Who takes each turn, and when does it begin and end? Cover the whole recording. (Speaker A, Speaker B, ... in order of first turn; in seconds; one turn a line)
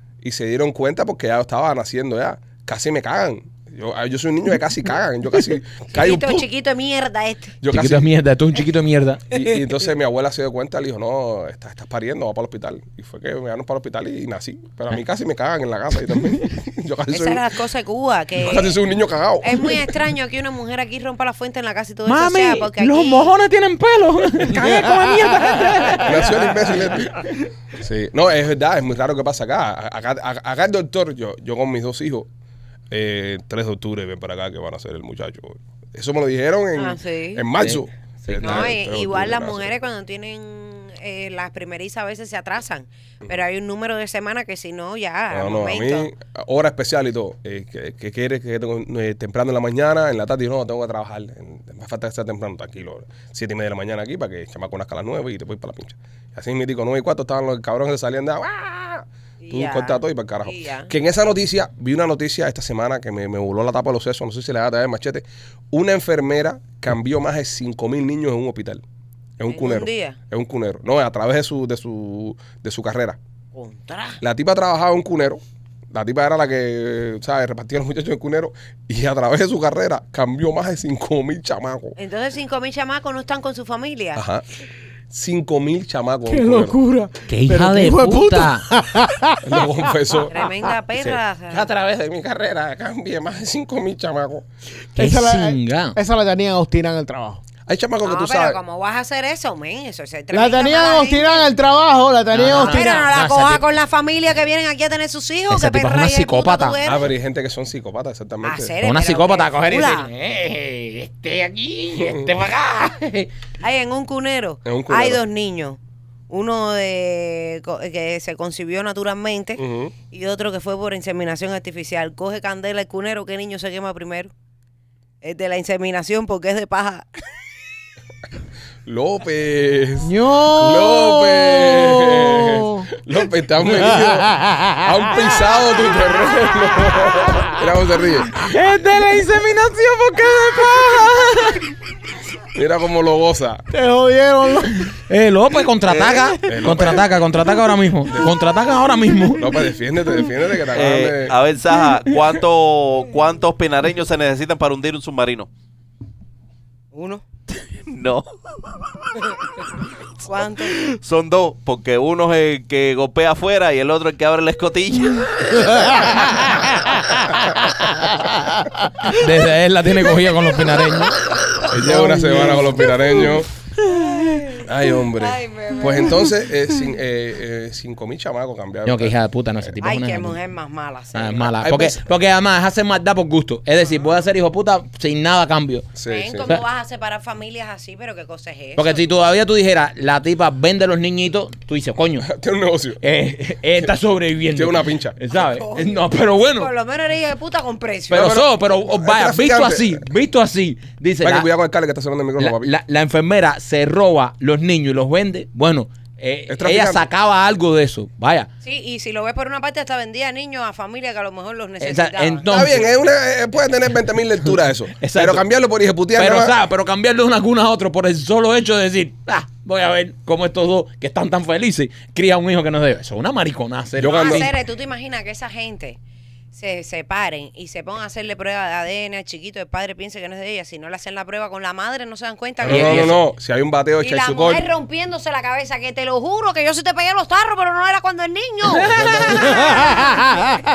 Speaker A: 0.2-6.5
Speaker B: 5.9-7.6
Speaker A: 7.6-8.1
Speaker C: 7.7-9.4
Speaker A: 9.3-17.4
Speaker B: 17.1-18.8
Speaker A: 18.4-19.9
Speaker B: 19.4-23.3
Speaker C: 22.0-26.7
Speaker A: 26.0-32.3
Speaker A: 32.9-39.8
Speaker B: 36.8-37.5
Speaker C: 37.6-38.7
Speaker B: 38.4-46.1
Speaker A: 45.3-68.8
Speaker B: 59.4-60.9
Speaker A: 69.4-73.2
Speaker B: 69.5-70.2
Speaker B: 73.5-74.2
Speaker A: 74.2-75.4
Speaker A: 75.9-82.0
Speaker B: 82.0-84.2
Speaker A: 84.2-84.5
Speaker A: 85.1-86.8
Speaker D: 86.3-89.7
Speaker C: 87.3-88.6
Speaker A: 89.4-90.4
Speaker B: 90.3-91.7
Speaker A: 91.0-94.5
Speaker D: 94.9-97.4
Speaker C: 95.0-96.0
Speaker A: 97.7-98.6
Speaker B: 98.0-101.5
Speaker D: 100.3-103.1
Speaker C: 102.3-103.6
Speaker B: 102.5-107.1
Speaker C: 105.5-106.8
Speaker A: 106.8-108.7
Speaker B: 108.4-110.1
Speaker C: 108.8-113.3
Speaker A: 112.0-112.3
Speaker B: 113.6-124.3
Speaker A: 114.6-115.2
Speaker A: 119.6-119.9
Speaker B: 125.2-127.1
Speaker A: 128.8-138.5
Speaker D: 130.0-132.9
Speaker D: 133.7-135.5
Speaker C: 138.4-141.6
Speaker D: 140.4-141.4
Speaker A: 142.5-143.6
Speaker D: 143.7-144.9
Speaker C: 144.8-149.6
Speaker A: 145.9-147.1
Speaker A: 148.1-148.3
Speaker A: 149.3-151.3
Speaker E: 150.7-155.5
Speaker B: 156.9-157.2
Speaker E: 157.8-158.2
Speaker E: 159.0-159.6
Speaker B: 160.2-160.8
Speaker E: 160.5-167.0
Speaker C: 169.1-171.3
Speaker A: 171.7-173.5
Speaker D: 171.8-173.0
Speaker B: 173.8-176.3
Speaker A: 174.6-179.2
Speaker C: 178.8-180.4
Speaker B: 179.8-181.6
Speaker C: 181.1-185.9
Speaker A: 181.6-182.0
Speaker B: 183.8-184.2
Speaker A: 185.9-186.6
Speaker B: 186.1-189.0
Speaker C: 188.8-192.3
Speaker A: 192.2-193.0
Speaker C: 193.0-196.7
Speaker A: 194.5-195.2
Speaker B: 195.3-198.3
Speaker C: 198.1-201.5
Speaker A: 198.1-200.0
Speaker A: 201.2-202.7
Speaker C: 202.4-208.5
Speaker A: 206.5-207.1
Speaker B: 208.6-212.4
Speaker C: 211.8-212.9
Speaker A: 212.5-216.5
Speaker C: 214.9-215.4
Speaker C: 216.1-224.5
Speaker A: 223.9-224.5
Speaker B: 224.0-226.0
Speaker B: 226.5-233.1
Speaker A: 232.6-234.7
Speaker C: 232.7-233.2
Speaker B: 234.0-240.2
Speaker C: 238.7-240.2
Speaker D: 239.4-240.5